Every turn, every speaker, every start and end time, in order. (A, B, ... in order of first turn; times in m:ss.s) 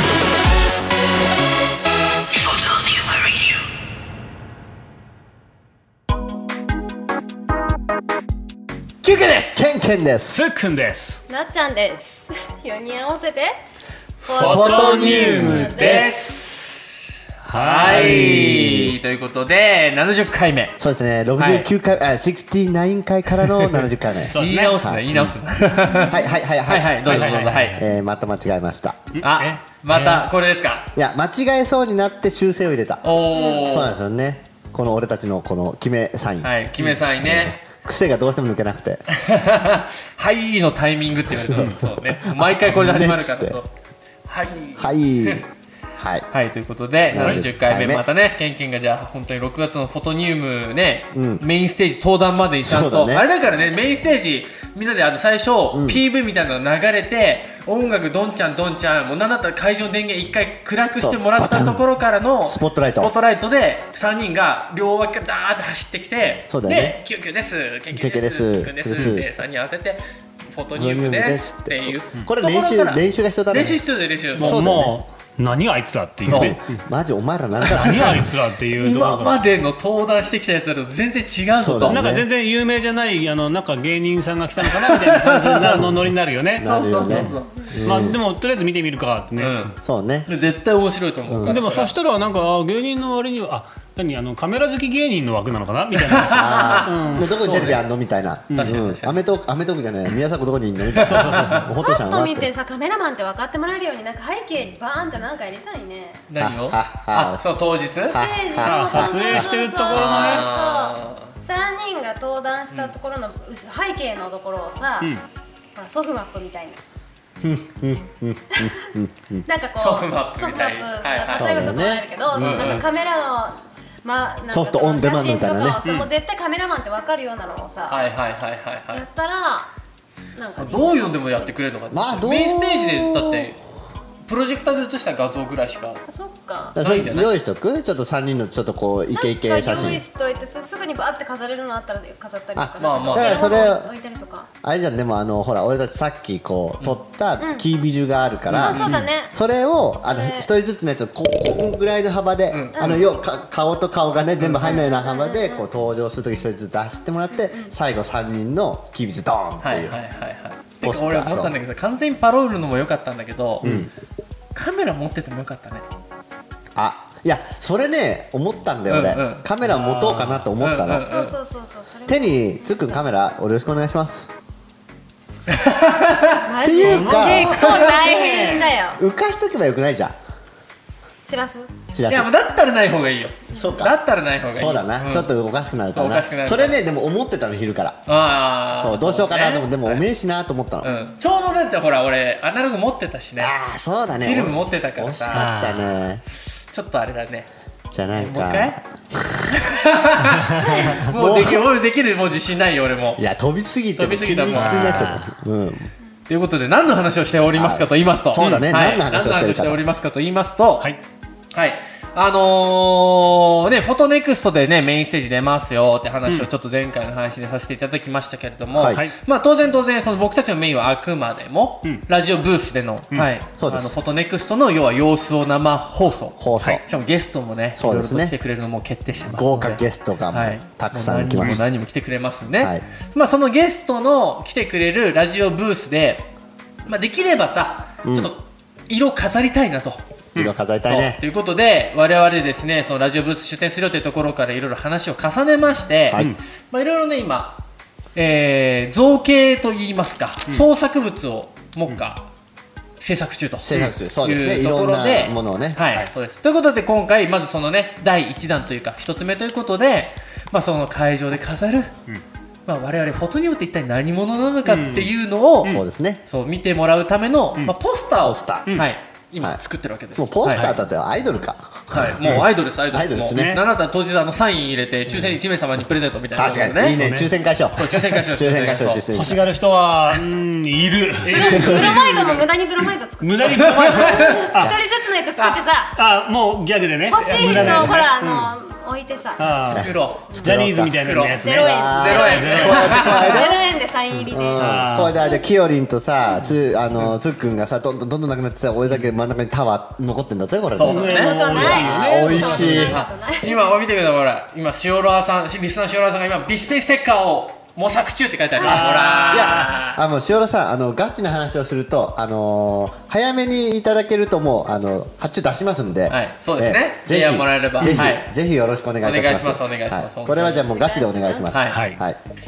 0:09.0-0:09.6 A
0:09.5-0:10.4 B
0:10.3-0:11.2 C
0:11.3-0:13.6 D
0:14.2-0:16.2 D
0:14.4-0:16.0 C
0:14.4-0:16.9 A
0:14.4-0:16.2 B
0:17.4-0:18.7 C
0:17.5-0:20.8 A
0:17.8-0:19.0 B
0:20.8-0:25.3 B
0:21.4-0:21.7 A
0:24.2-0:24.8 C
0:24.3-0:27.8 A
0:25.8-0:26.2 D
0:26.1-0:29.1 B
0:27.1-0:27.8 C
0:29.1-0:30.3 C
0:29.2-0:30.9 A
0:31.0-0:36.5 B
0:33.0-0:33.9 A
0:33.3-0:33.6 D
0:36.4-0:37.6 A
0:37.2-0:39.0 B
0:39.1-0:43.7 A
0:41.5-0:41.8 C
0:41.6-0:43.6 B
0:44.2-0:45.4 A
0:44.8-0:46.3 B
0:46.3-1:10.0 A
0:47.1-0:48.0 B
0:51.1-0:51.4 B
0:52.6-0:53.2 B
0:55.7-0:56.0 B
1:01.0-1:01.8 B
1:02.5-1:03.1 B
1:06.5-1:07.0 B
1:07.9-1:09.2 B
1:10.5-1:14.7 A
1:10.7-1:13.8 B
1:14.4-1:16.8 C
1:14.4-1:15.0 B
1:16.2-1:18.3 B
1:16.3-1:16.6 A
1:17.6-1:22.0 A
1:17.7-1:19.4 C
1:21.6-1:22.3 B
1:21.9-1:29.7 C
1:24.6-1:25.8 A
1:26.6-1:28.2 B
1:26.6-1:27.8 A
1:29.4-1:29.7 A
1:29.8-1:30.3 B
1:30.2-1:31.9 A
1:31.3-1:31.8 B
1:31.5-1:37.7 C
1:36.0-1:37.8 A
1:36.3-1:42.5 B
1:38.5-1:39.2 A
1:41.0-1:41.6 A
1:41.1-1:41.7 C
1:41.8-1:46.2 D
1:46.3-1:48.2 A
1:46.4-1:47.4 B
1:48.1-1:49.5 B
1:48.1-1:55.1 D
1:48.6-1:50.5 C
1:49.9-1:51.3 A
1:55.8-1:56.8 D
1:57.4-1:59.4 B
1:59.4-2:08.0 D
1:59.8-2:01.7 A
2:01.3-2:02.8 B
2:02.3-2:02.8 A
2:04.5-2:05.8 B
2:05.8-2:06.1 C
2:07.9-2:09.0 A
2:08.9-2:09.7 D
2:10.3-2:11.5 D
2:10.6-2:13.6 A
2:11.9-2:13.5 B
2:14.2-2:16.0 A
2:16.1-2:16.7 D
2:16.7-2:20.0 B
2:16.8-2:17.3 A
2:19.1-2:24.5 D
2:22.6-2:23.9 B
2:22.8-2:23.7 A
2:24.6-2:40.0 B
2:27.4-2:27.6 D
2:28.5-2:29.3 D
2:28.6-2:29.0 A
2:28.8-2:29.1 C
2:30.0-2:30.5 D
2:32.5-2:33.1 A
2:34.4-2:34.8 A
2:34.7-2:35.6 D
2:37.3-2:37.7 D
2:39.6-2:43.7 A
2:40.8-2:41.5 B
2:43.6-2:43.9 C
2:43.6-2:43.9 B
2:44.5-2:45.8 A
2:46.8-2:51.0 B
2:48.9-2:49.4 A
2:49.6-2:50.5 C
2:50.6-2:51.4 A
2:50.9-2:52.9 D
2:52.1-2:54.3 B
2:55.5-2:56.4 A
2:56.4-2:59.0 D
2:56.6-2:57.7 B
2:56.8-2:58.7 C
2:57.4-2:58.5 A
2:59.0-3:00.2 B
3:01.2-3:01.7 D
3:01.9-3:02.3 B
3:02.1-3:05.3 A
3:03.5-3:04.0 B
3:04.5-3:08.0 B
3:05.9-3:06.8 A
3:08.1-3:10.0 A
3:08.8-3:10.9 B
3:10.8-3:13.5 A
3:13.4-3:16.2 B
3:14.2-3:15.5 A
3:15.3-3:15.9 C
3:16.7-3:17.5 A
3:17.9-3:19.6 B
3:18.1-3:18.8 A
3:19.5-3:23.2 A
3:20.5-3:20.9 C
3:20.6-3:21.7 B
3:23.2-3:25.9 B
3:23.9-3:25.2 A
3:24.5-3:25.3 C
3:26.3-3:30.9 A
3:27.5-3:29.8 B
3:28.4-3:28.6 C
3:31.5-3:56.3 A
3:38.7-3:39.0 B
3:38.9-3:39.1 C
3:43.6-3:44.0 B
3:46.4-3:46.8 B
3:47.8-3:48.3 B
3:49.3-3:51.6 B
3:56.8-4:00.0 A
3:58.0-3:58.3 B
4:00.3-4:01.2 B
4:00.9-4:07.6 A
4:08.1-4:12.2 A
4:13.0-4:21.9 A
4:13.6-4:15.8 B
4:22.7-4:30.8 A
4:24.6-4:25.1 C
4:25.6-4:26.2 B
4:28.2-4:28.8 B
4:30.1-4:33.6 B
4:31.9-4:37.0 A
4:33.3-4:33.6 C
4:35.1-4:35.3 C
4:36.3-4:39.4 B
4:36.8-4:37.3 C
4:37.7-4:39.1 A
4:39.1-4:41.9 C
4:41.2-4:42.5 A
4:41.3-4:46.0 D
4:43.2-4:44.7 C
4:43.4-4:44.4 A
4:45.9-4:48.5 C
4:47.1-4:49.5 D
4:47.2-4:47.6 A
4:47.5-4:48.0 B
4:49.4-4:53.4 C
4:49.7-4:53.6 B
4:49.7-4:53.5 A
4:51.4-4:54.6 D
4:54.1-5:03.0 B
4:54.6-4:55.2 C
4:56.4-4:57.1 C
5:00.8-5:01.8 A
5:00.8-5:03.0 C
5:00.9-5:03.6 D
5:02.4-5:10.0 A
5:08.6-5:09.7 C
5:08.6-5:08.9 D
5:09.3-5:22.2 B
5:16.1-5:18.3 A
5:17.8-5:18.1 C
5:19.0-5:20.6 A
5:20.4-5:21.5 D
5:21.5-5:21.8 A
5:21.7-5:22.0 C